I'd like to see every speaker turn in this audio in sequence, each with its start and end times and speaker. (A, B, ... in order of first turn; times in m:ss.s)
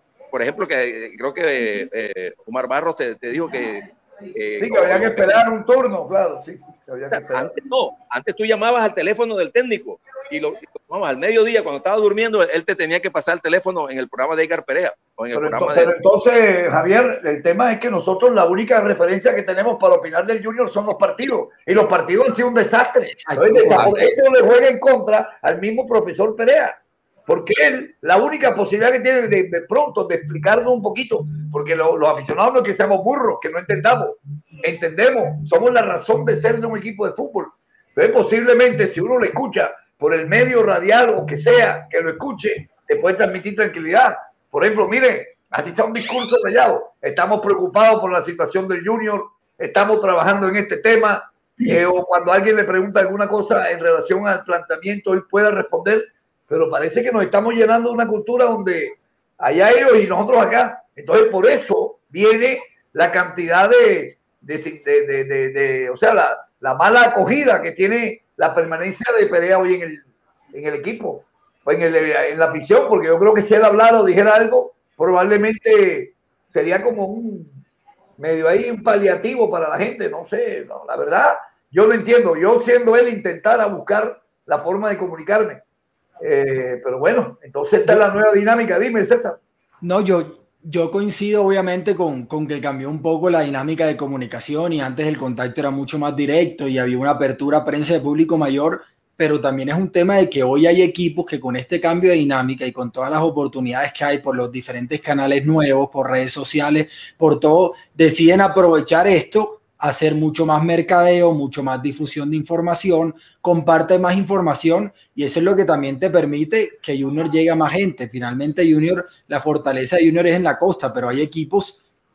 0:00.3-0:05.4 A
0:04.6-0:07.6 B
0:07.1-0:15.9 A
0:15.3-1:17.6 B
0:23.1-0:24.1 C
0:23.8-0:24.2 A
1:18.2-1:25.6 B
1:26.2-1:29.4 B
1:27.8-1:28.1 C
1:29.8-2:01.8 C